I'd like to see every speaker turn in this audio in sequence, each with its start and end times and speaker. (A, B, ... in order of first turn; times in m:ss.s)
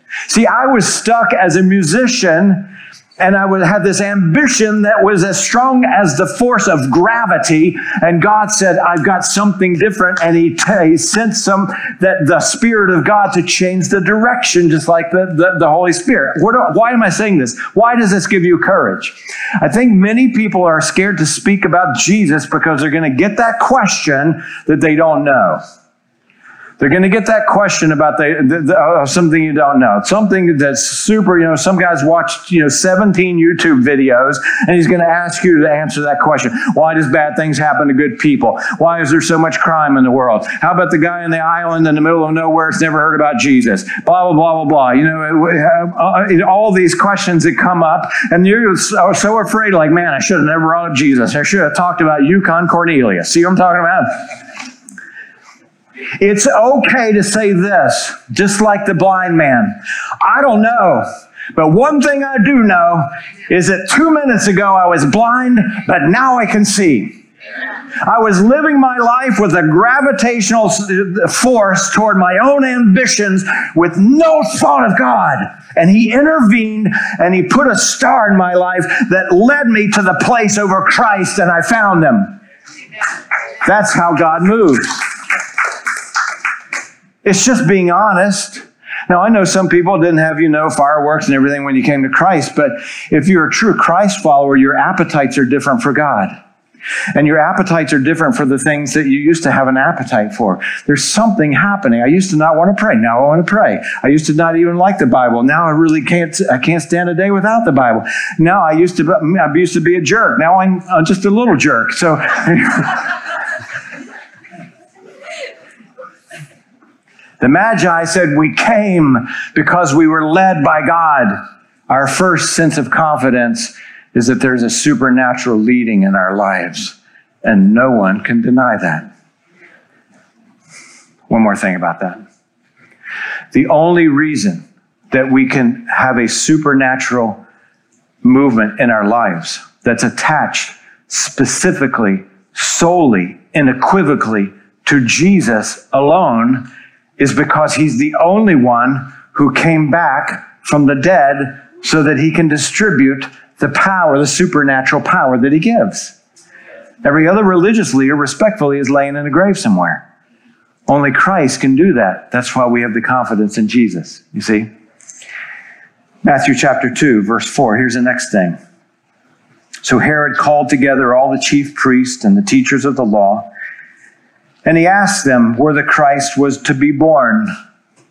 0:00.3-0:25.6 A
0:26.8-0:54.2 A
0:56.2-1:07.1 A
1:08.0-1:22.4 A
1:23.6-1:25.0 A
1:27.2-1:36.3 A
1:37.1-1:53.1 A
1:57.4-2:01.4 A
2:01.9-2:09.1 A
2:11.3-2:12.2 A
2:13.5-2:17.4 A
2:18.2-2:26.7 A
2:27.2-2:36.1 A
2:37.0-2:40.0 A
2:40.9-2:44.7 A
2:46.2-2:48.6 A
2:49.8-2:53.5 A
2:54.6-2:57.5 A